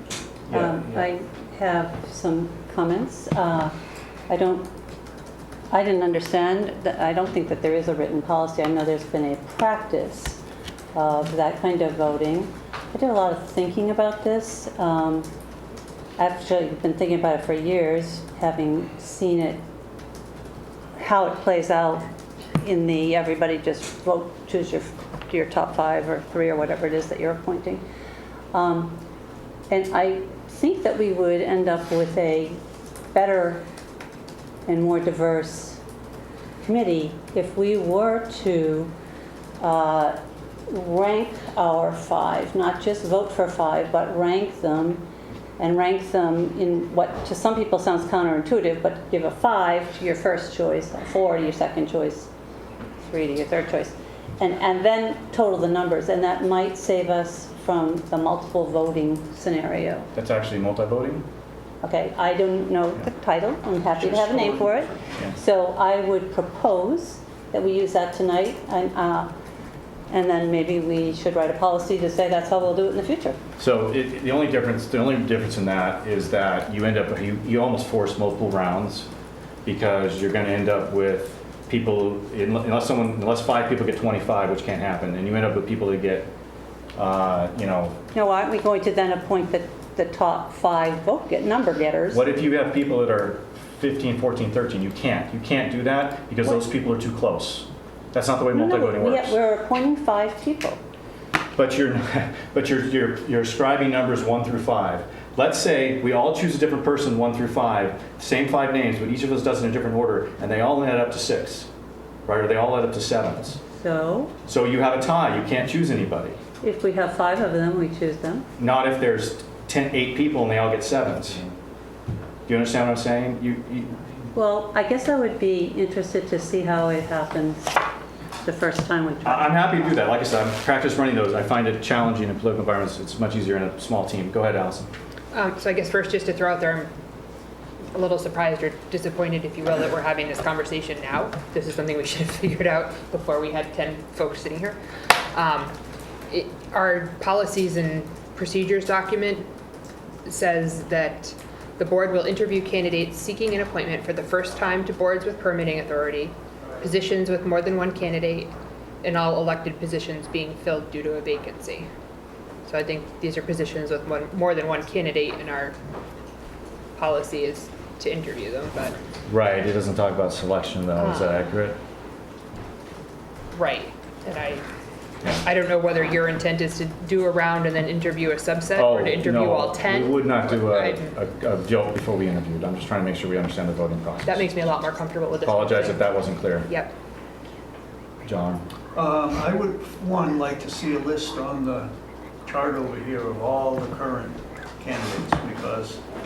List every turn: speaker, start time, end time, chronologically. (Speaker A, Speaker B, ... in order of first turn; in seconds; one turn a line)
Speaker A: 0.5-1.0
Speaker B: 0.5-3.7
Speaker B: 4.3-4.7
Speaker B: 5.7-10.4
Speaker B: 10.9-15.3
Speaker B: 16.2-19.6
Speaker B: 21.0-22.0
Speaker B: 22.6-27.8
Speaker B: 28.5-29.0
Speaker B: 29.7-32.6
Speaker B: 33.1-33.6
Speaker B: 34.7-35.8
Speaker B: 36.6-38.9
Speaker B: 39.6-40.2
Speaker B: 40.7-45.0
Speaker B: 45.6-52.3
Speaker B: 53.0-60.1
Speaker A: 60.1-61.2
Speaker B: 61.8-69.3
Speaker C: 63.9-64.9
Speaker B: 70.1-73.4
Speaker A: 73.6-79.1
Speaker A: 79.6-86.3
Speaker A: 87.0-88.0
Speaker B: 88.1-92.2
Speaker A: 92.1-99.4
Speaker B: 98.5-100.8
Speaker A: 101.5-111.7
Speaker A: 112.2-113.6
Speaker B: 113.8-114.3
Speaker A: 114.5-116.4
Speaker B: 116.6-118.5
Speaker A: 118.6-121.4
Speaker A: 122.5-124.0
Speaker B: 124.3-127.8
Speaker B: 128.4-130.0
Speaker A: 129.2-134.9
Speaker D: 135.3-136.9
Speaker D: 137.9-144.8
Speaker D: 145.3-145.7
Speaker D: 146.3-149.5
Speaker D: 150.2-161.9
Speaker D: 162.7-165.7
Speaker D: 166.9-168.9
Speaker A: 169.3-171.8
Speaker D: 170.9-171.4
Speaker D: 173.5-174.6
Speaker D: 175.4-181.1
Speaker A: 178.7-184.4
Speaker D: 184.2-186.9
Speaker A: 185.4-186.7
Speaker A: 188.2-188.6
Speaker C: 188.9-191.9
Speaker C: 192.4-196.0